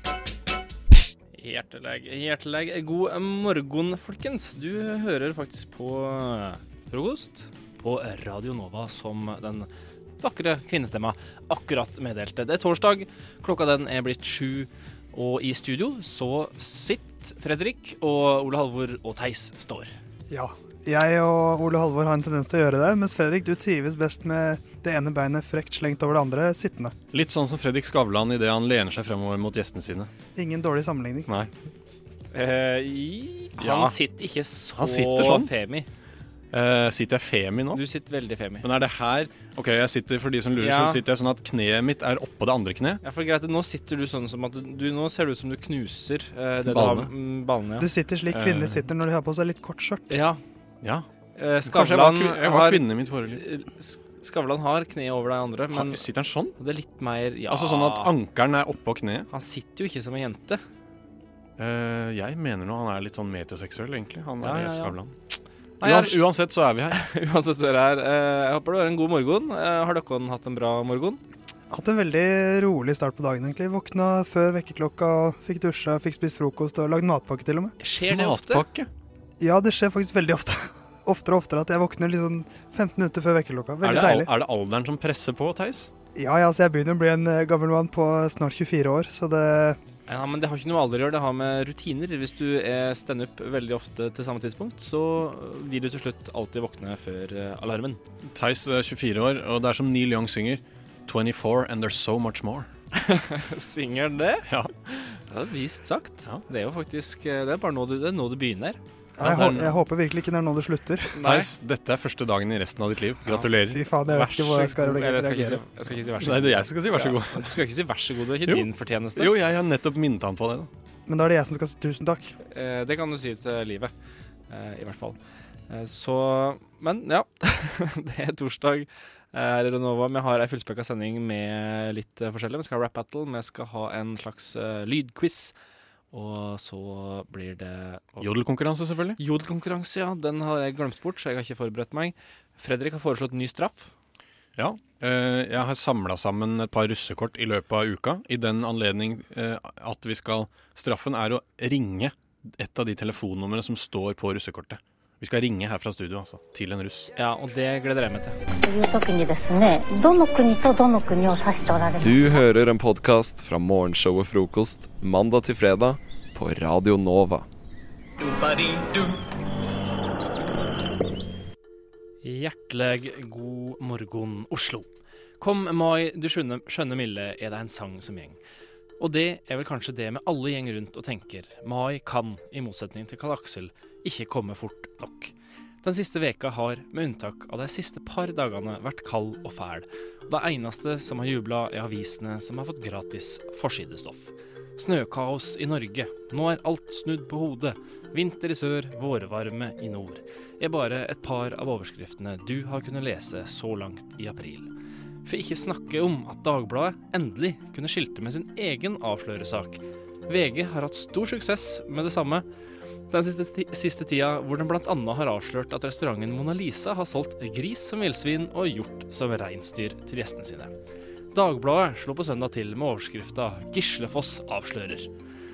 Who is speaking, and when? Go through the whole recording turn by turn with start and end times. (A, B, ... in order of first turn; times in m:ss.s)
0:01.4-0:09.7 A
0:10.2-0:19.9 A
0:20.3-0:26.9 B
0:27.1-0:30.1 C
0:30.4-0:31.3 B
0:32.3-0:35.9 A
0:33.6-0:34.0 C
0:34.8-0:35.5 C
0:36.5-0:37.8 C
0:37.7-0:38.7 A
0:38.6-0:43.0 C
0:40.6-0:41.0 A
0:43.0-0:47.9 A
0:46.7-0:47.1 C
0:47.8-0:50.2 B
0:48.3-0:48.8 C
0:50.1-0:50.4 A
0:51.4-0:56.0 A
0:51.6-0:53.4 C
0:55.7-0:56.6 C
0:56.6-0:58.1 A
0:57.5-0:59.3 C
0:59.3-1:00.6 A
1:01.6-1:05.2 C
1:04.4-1:05.0 A
1:05.8-1:06.2 A
1:05.8-1:07.0 C
1:06.9-1:11.2 A
1:11.7-1:17.8 B
1:17.8-1:18.6 A
1:18.1-1:18.9 C
1:19.4-1:24.3 B
1:23.8-1:25.9 C
1:26.2-1:29.8 B
1:30.1-1:38.0 A
1:38.3-1:42.7 C
1:42.9-1:48.8 A
1:44.5-1:44.7 C
1:49.2-1:51.2 B
1:49.2-1:49.8 C
1:51.2-1:51.5 A
1:51.2-1:53.8 C
1:53.7-1:55.6 B
1:54.0-1:59.3 A
1:56.2-1:57.6 C
1:58.5-2:00.7 C
2:01.1-2:02.4 B
2:02.4-2:03.9 A
2:04.5-2:05.2 A
2:05.7-2:15.5 A
2:16.1-2:18.3 A
2:18.2-2:19.2 C
2:19.2-2:23.9 A
2:24.6-2:37.1 C
2:37.2-2:38.4 A
2:38.5-2:42.4 D
2:42.0-2:47.5 E
2:52.2-2:54.9 A
2:55.4-2:58.4 A
2:59.0-3:24.7 A
3:25.2-3:32.4 A
3:33.1-3:40.7 A
3:41.3-3:45.1 A